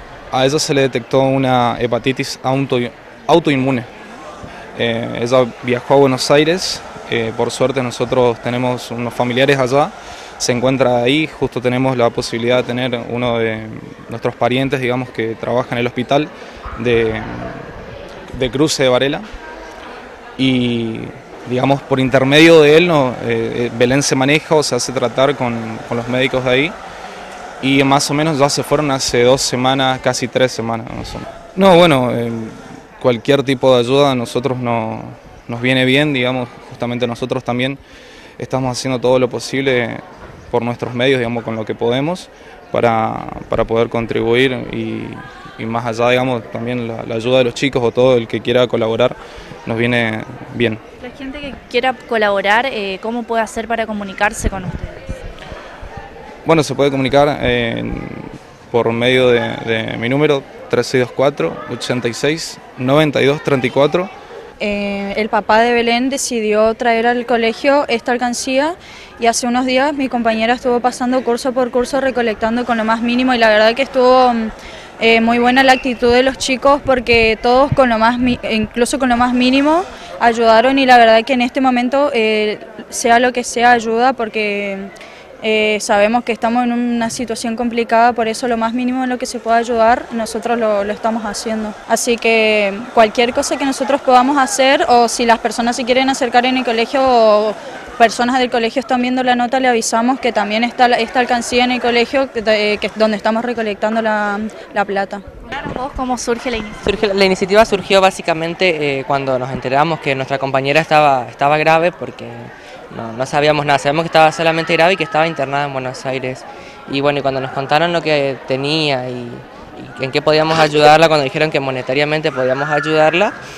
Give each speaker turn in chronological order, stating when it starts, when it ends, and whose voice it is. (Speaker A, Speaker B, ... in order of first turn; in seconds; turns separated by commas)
Speaker A: 0.3-3.9, Speaker A: 4.8-17.7, Speaker A: 18.3-19.2, Speaker A: 20.4-26.8, Speaker A: 27.6-37.8, Speaker A: 38.4-50.8, Speaker B: 51.0-55.1, Speaker A: 56.5-64.1, Speaker C: 64.6-84.9, Speaker C: 85.4-105.2, Speaker B: 105.5-106.8, Speaker D: 106.8-123.3